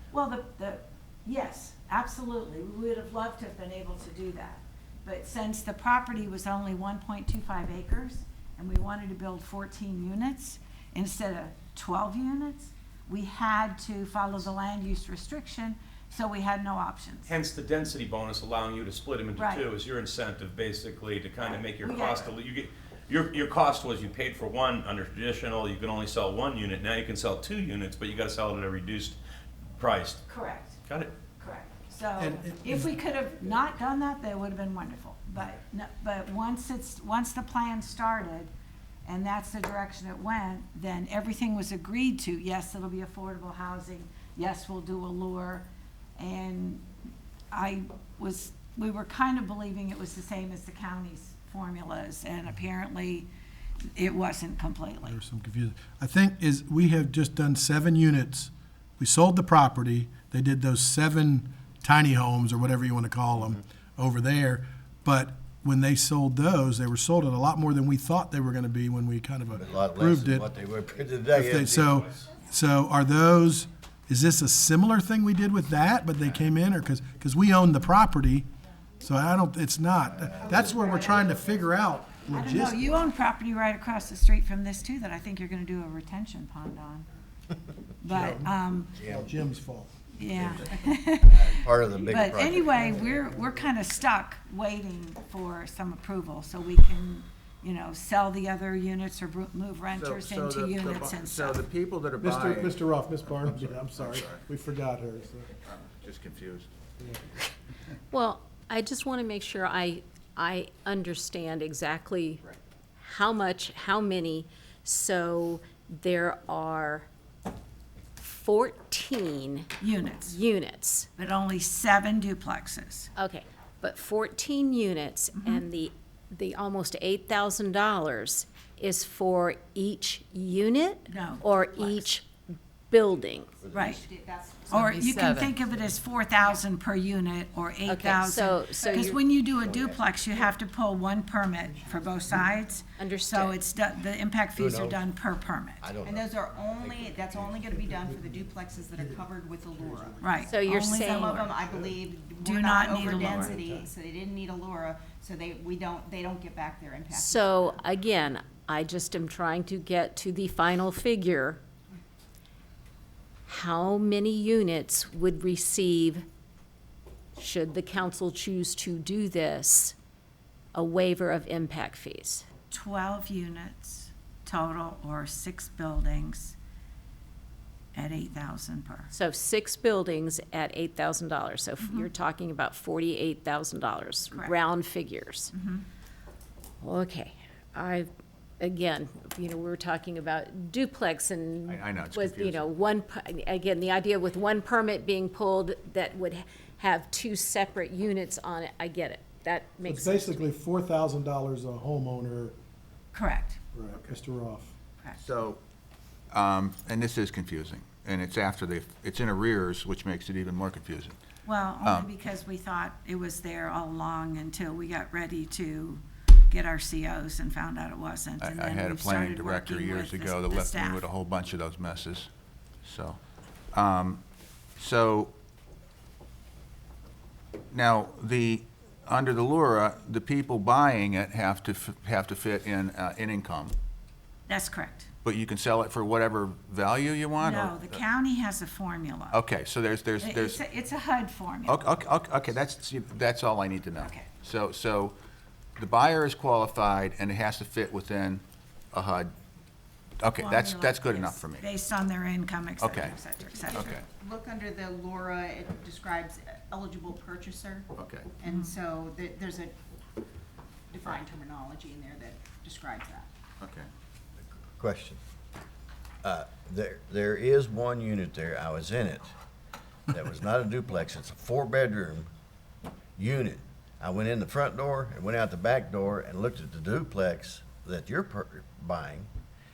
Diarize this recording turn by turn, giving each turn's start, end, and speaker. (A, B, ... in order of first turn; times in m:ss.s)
0:00.1-0:17.3 A
0:17.2-0:29.2 B
0:19.4-0:19.7 A
0:21.4-0:22.4 A
0:29.8-0:30.2 B
0:30.3-0:30.8 A
0:30.9-0:31.1 B
0:31.4-0:38.5 A
0:32.2-0:32.9 C
0:39.0-0:46.8 A
0:47.5-0:53.3 A
0:54.0-0:55.2 A
0:55.0-1:10.4 C
1:09.6-1:11.9 D
1:11.3-1:18.5 C
1:19.0-1:22.9 C
1:20.2-1:20.8 D
1:20.4-1:21.6 A
1:22.3-1:27.1 A
1:28.0-1:29.0 A
1:28.1-1:29.9 C
1:29.0-1:29.4 D
1:30.1-1:41.6 A
1:30.2-1:32.9 D
1:32.8-1:33.6 C
1:39.9-1:44.4 E
1:42.2-1:45.5 C
1:45.6-1:46.7 E
1:48.1-1:52.4 F
1:53.0-1:57.1 F
1:58.2-1:59.7 F
1:59.8-2:00.4 A
2:00.3-2:01.1 F
2:01.2-2:03.1 A
2:03.2-2:12.3 F
2:05.4-2:05.6 A
2:11.1-2:12.1 A
2:12.9-2:13.5 F
2:13.6-2:14.0 D
2:13.7-2:14.0 A
2:14.0-2:14.8 G
2:14.7-2:26.0 A
2:14.9-2:15.5 F
2:17.8-2:19.2 F
2:19.6-2:20.5 D
2:23.0-2:23.6 F
2:24.6-2:25.0 D
2:25.8-2:27.8 D
2:26.0-2:30.1 G
2:28.0-2:30.7 C
2:30.2-2:31.6 A
2:30.5-2:31.4 F
2:30.9-2:37.8 G
2:31.6-2:31.9 C
2:32.4-2:33.5 A
2:33.2-2:33.9 C
2:37.1-2:41.6 F
2:43.5-2:46.2 F
2:47.4-2:49.9 F
2:50.7-2:52.4 F
2:52.7-2:56.6 A
2:57.9-2:59.1 A
2:59.1-3:05.5 F
3:01.8-3:02.1 A
3:05.5-3:05.8 A
3:06.8-3:08.1 F
3:08.6-3:20.4 F
3:11.7-3:12.7 E
3:19.8-3:22.5 C
3:23.1-3:23.6 A
3:23.7-3:24.7 C
3:25.2-3:25.6 E
3:26.3-3:31.2 E
3:31.4-3:41.1 A
3:31.8-3:32.1 E
3:38.4-3:42.3 E
3:42.8-3:43.2 E
3:43.7-3:44.2 E
3:44.8-3:45.3 E
3:47.7-3:53.7 E
3:54.5-3:55.1 A
3:55.2-3:58.0 E
3:57.4-3:59.4 A
3:59.3-4:00.6 E
4:00.2-4:01.9 A
4:01.7-4:05.2 E
4:04.0-4:04.3 A
4:05.8-4:09.3 E
4:10.2-4:11.6 E
4:10.3-4:14.0 A
4:12.8-4:13.2 E
4:13.7-4:14.0 E
4:13.8-4:19.8 G
4:18.0-4:18.3 E
4:18.4-4:18.8 A
4:20.9-4:23.3 G
4:23.6-4:23.9 E
4:24.7-4:25.2 D
4:26.2-4:29.3 D
4:30.1-4:32.3 D
4:33.2-4:39.3 D